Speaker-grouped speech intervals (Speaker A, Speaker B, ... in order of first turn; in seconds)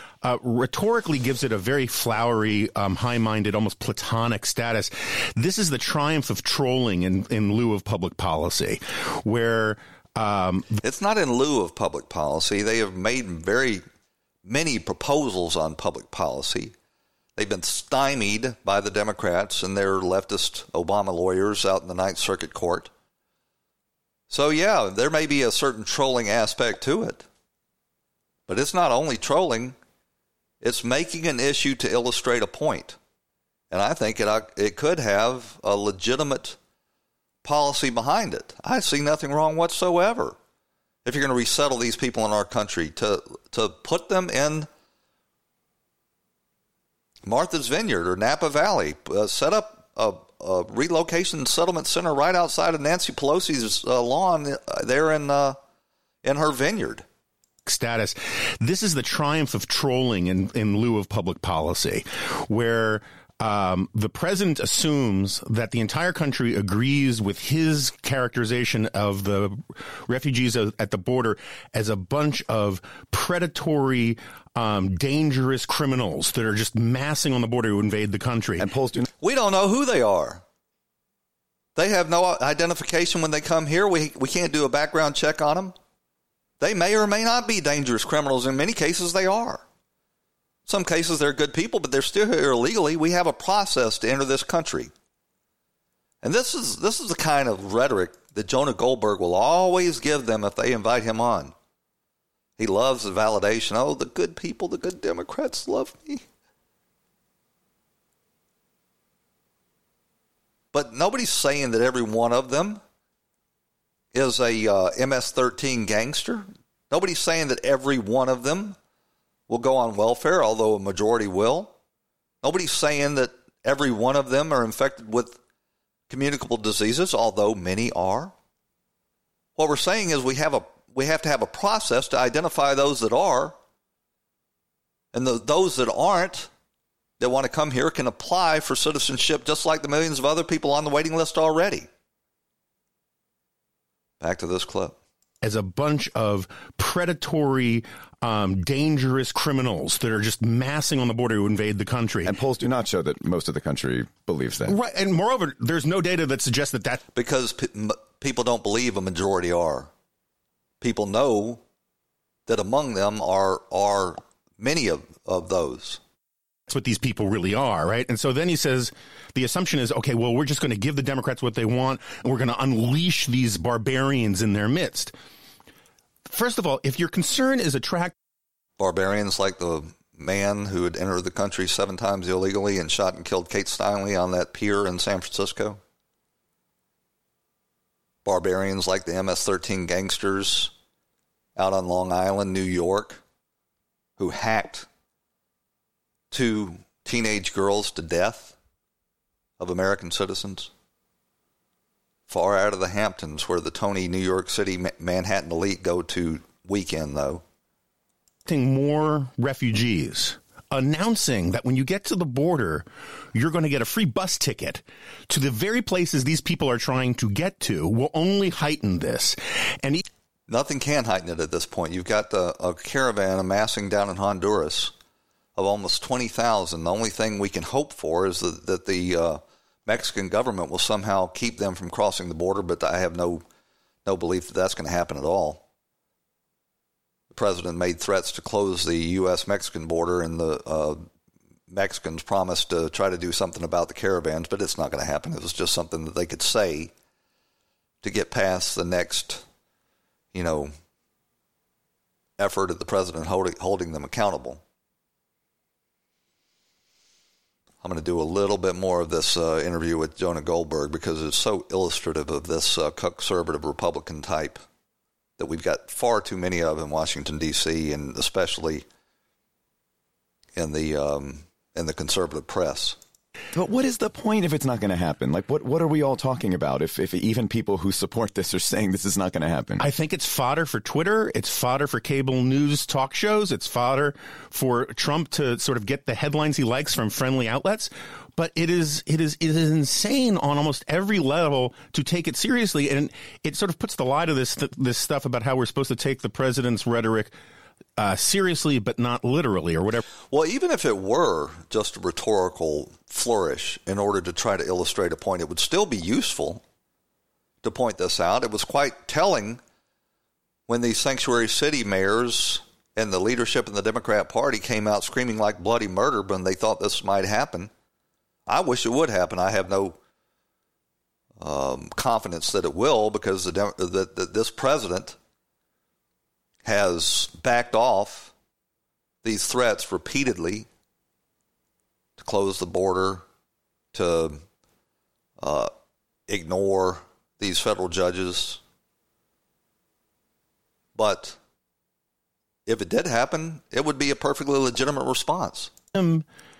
Speaker A: 0.2-10.8, 57.6-78.7, 145.4-152.4, 154.6-157.0, 166.7-175.1, 176.2-178.1, 208.4-220.0, 279.8-297.3, 298.0-300.0, 345.9-346.2
Speaker B: 10.8-13.8, 14.4-16.7, 17.4-22.9, 24.3-27.2, 28.5-29.8, 30.6-33.0, 33.7-36.6, 37.4-40.4, 41.0-44.7, 47.2-55.6, 56.2-57.0, 79.2-80.4, 81.7-85.7, 86.6-89.6, 90.7-94.9, 96.2-101.5, 102.6-106.2, 110.7-112.8, 114.1-118.8, 119.5-121.7, 122.4-125.4, 126.1-128.3, 129.6-133.6, 135.1-136.5, 137.2-141.9, 144.2-144.9, 157.1-159.9, 160.8-161.6, 162.5-166.0, 178.8-185.8, 188.2-190.7, 191.6-193.2, 194.2-194.9, 196.3-198.6, 199.6-200.7, 202.3-207.4, 220.5-224.9, 225.6-233.4, 234.0-235.6, 237.3-241.1, 241.7-246.9, 248.0-249.4, 250.3-250.7, 252.4-254.6, 257.8-264.6, 265.4-268.8, 270.6-273.0, 300.3-306.6, 307.6-309.6, 310.7-317.7, 318.5-320.0, 321.4-325.2, 326.6-328.3, 329.2-330.7, 332.2-333.2, 333.9-334.4, 335.4-335.7, 336.3-338.6, 340.9-341.4, 342.6-345.7
Speaker C: 78.6-79.1, 152.2-154.7, 273.5-279.8